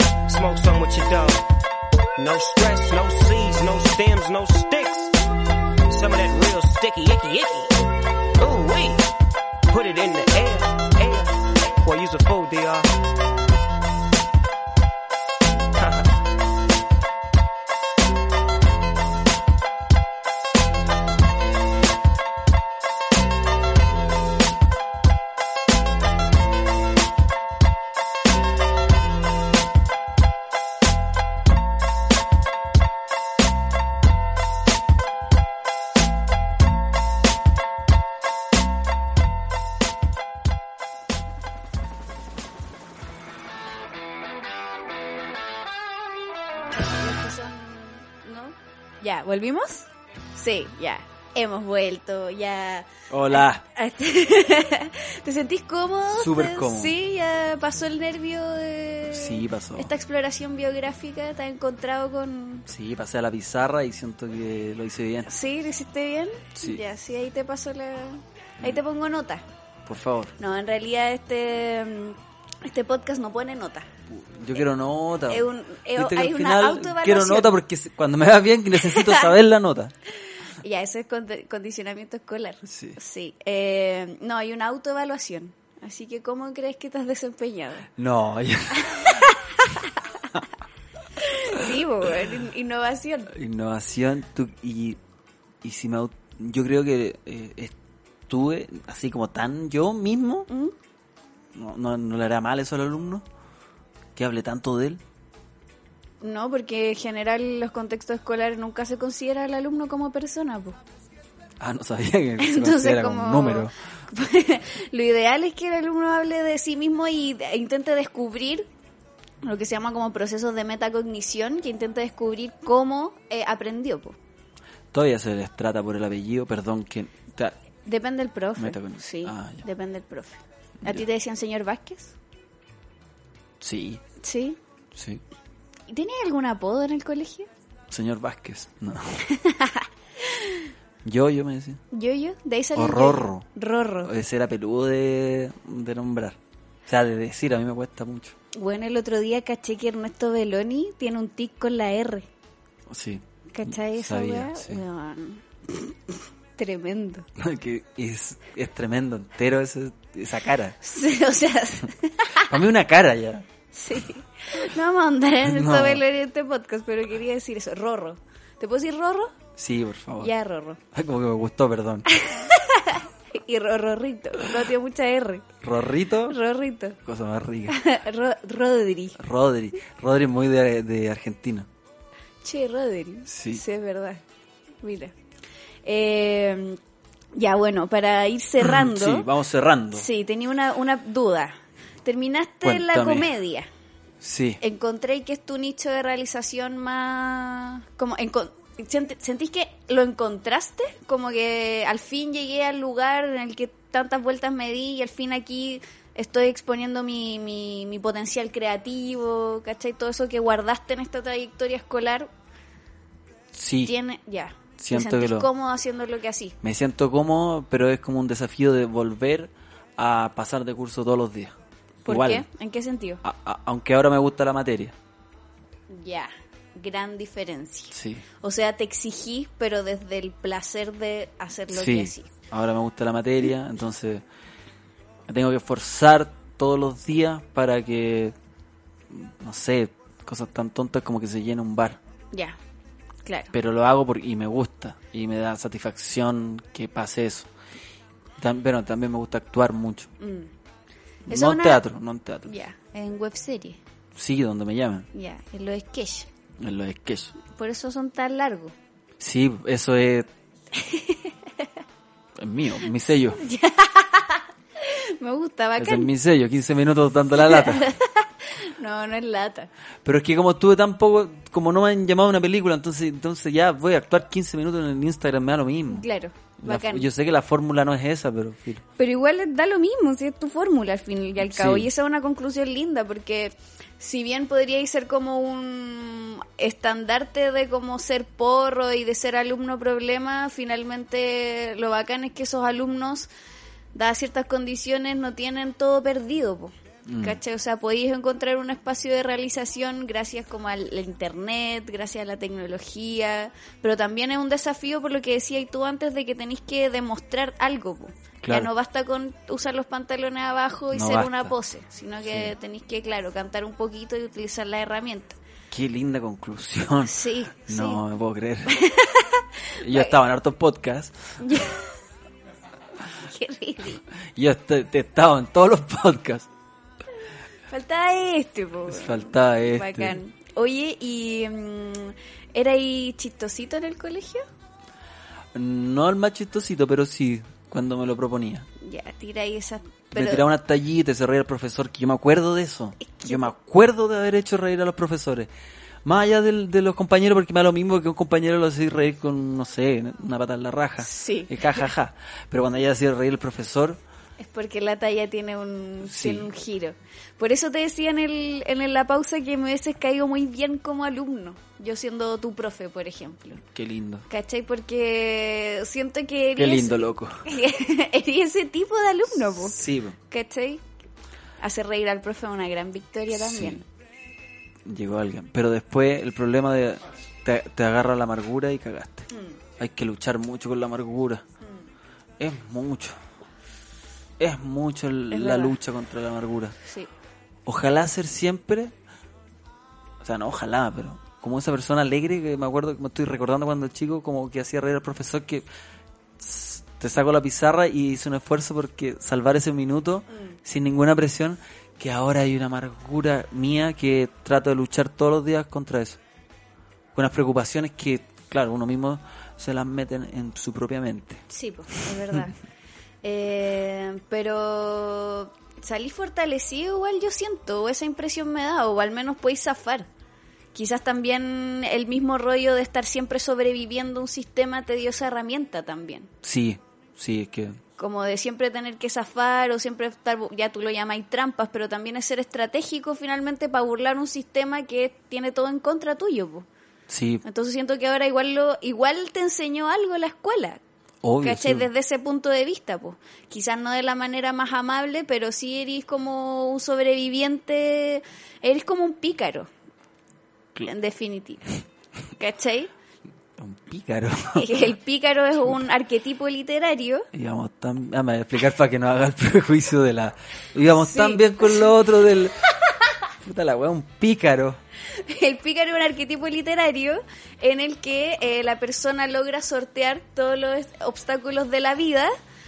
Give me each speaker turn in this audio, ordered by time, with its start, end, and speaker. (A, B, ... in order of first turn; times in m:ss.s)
0:00.3-0:01.5 A
0:02.2-0:05.2 A
0:05.9-0:07.8 A
0:08.4-0:09.1 A
0:09.7-0:12.9 A
0:15.8-0:16.1 A
0:46.8-1:02.7 B
0:53.1-0:53.6 C
0:56.1-0:57.0 C
0:59.1-0:59.9 C
1:02.7-1:05.3 C
1:05.3-1:09.4 B
1:09.9-1:10.4 C
1:10.4-1:13.9 B
1:14.1-1:19.9 C
1:15.3-1:17.5 B
1:18.9-1:19.3 B
1:20.6-1:27.9 B
1:22.6-1:23.0 C
1:28.0-1:29.2 C
1:28.8-1:30.2 B
1:31.2-1:33.3 B
1:33.3-1:35.0 C
1:35.6-1:37.7 C
1:38.3-1:40.5 C
1:40.5-1:40.7 B
1:41.5-1:43.2 C
1:44.2-1:45.0 C
1:46.2-1:50.8 B
1:51.6-1:53.7 C
1:52.4-1:58.7 B
1:59.4-2:04.2 B
2:04.9-2:07.6 C
2:07.8-2:12.2 B
2:08.6-2:09.6 C
2:13.6-2:14.0 C
2:14.2-2:14.6 B
2:14.9-2:15.2 C
2:15.9-2:17.5 B
2:17.9-2:19.3 C
2:19.3-2:20.7 B
2:21.0-2:21.8 C
2:21.9-2:24.1 B
2:22.8-2:23.5 C
2:24.0-2:28.4 C
2:28.5-2:32.3 B
2:32.9-2:34.8 C
2:33.5-2:37.3 B
2:37.4-2:40.8 C
2:40.8-2:42.5 B
2:42.4-2:43.5 C
2:43.7-2:49.4 B
2:45.4-2:46.0 C
2:49.6-2:50.3 C
2:50.2-2:50.8 B
2:50.9-2:52.1 C
2:52.1-2:55.5 B
2:55.6-2:56.4 C
2:56.3-2:57.0 B
2:57.0-2:57.8 C
2:57.7-2:59.2 B
2:59.2-3:01.7 C
3:02.4-3:04.2 B
3:03.3-3:03.6 C
3:04.8-3:05.1 B
3:05.8-3:06.8 B
3:07.3-3:09.3 B
3:08.6-3:10.1 C
3:09.9-3:13.7 B
3:12.6-3:13.3 C
3:14.2-3:14.6 C
3:14.6-3:32.3 B
3:33.5-3:34.0 C
3:33.8-3:36.6 B
3:34.8-3:35.5 C
3:36.6-3:42.5 C
3:42.1-3:43.2 B
3:43.2-3:45.0 C
3:45.9-3:52.3 B
3:47.9-3:48.2 C
3:51.7-3:54.2 C
3:55.3-3:58.4 C
3:59.1-4:02.0 C
4:02.3-4:02.6 B
4:03.2-4:03.5 B
4:03.5-4:07.5 C
4:08.4-4:10.1 C
4:10.2-4:10.5 B
4:11.3-4:12.5 C
4:11.3-4:11.8 B
4:12.4-4:13.8 B
4:14.1-4:15.1 C
4:15.1-4:16.3 B
4:16.6-4:17.4 C
4:17.4-4:18.7 B
4:19.2-4:20.3 C
4:20.7-4:21.7 B
4:22.4-4:23.4 C
4:23.4-4:26.1 B
4:25.8-4:27.9 C
4:27.4-4:29.7 B
4:30.0-4:36.1 C
4:35.9-4:37.1 B
4:36.6-4:38.8 C
4:39.0-4:53.3 B
4:41.4-4:41.9 C
4:53.9-5:15.4 B
4:57.1-4:57.4 C
5:08.4-5:08.7 C
5:10.9-5:11.6 C
5:12.2-5:12.5 C
5:15.7-5:18.8 C
5:17.1-5:18.0 B
5:18.7-5:20.1 B
5:19.8-5:21.4 C
5:21.4-5:21.9 B
5:23.2-5:24.0 B
5:24.4-5:26.5 C
5:27.7-5:34.5 B
5:28.9-5:30.2 C
5:35.5-5:38.7 C
5:38.8-5:40.5 B
5:40.1-5:45.5 C
5:43.0-5:43.5 B
5:46.0-5:54.0 C
5:51.0-5:51.9 B
5:54.4-6:03.6 B
5:56.0-5:56.5 C
6:03.7-6:04.2 C
6:04.3-6:10.8 B
6:06.6-6:07.5 C
6:09.6-6:10.2 C
6:11.6-6:13.8 B
6:13.3-6:13.8 C
6:14.8-6:21.4 C
6:19.3-6:19.6 B
6:22.4-6:23.2 C
6:24.4-6:26.8 C
6:25.3-6:25.8 B
6:26.8-6:27.1 B
6:27.7-6:28.9 C
6:30.2-6:35.7 C
6:36.4-6:46.2 C
6:47.1-6:51.4 C
6:51.5-6:52.6 B
6:53.2-7:00.1 B
7:00.7-7:06.3 B
7:06.4-7:07.8 C
7:08.0-7:16.7 B
7:17.1-7:17.4 C
7:17.4-7:20.8 B
7:21.2-7:21.9 C
7:21.4-7:29.7 B
7:30.8-7:31.7 B
7:32.4-7:32.9 B
7:33.6-7:34.9 C
7:34.6-7:37.3 B
7:37.3-7:42.6 C
7:40.9-7:41.9 B
7:43.4-7:44.8 C
7:45.1-7:52.3 B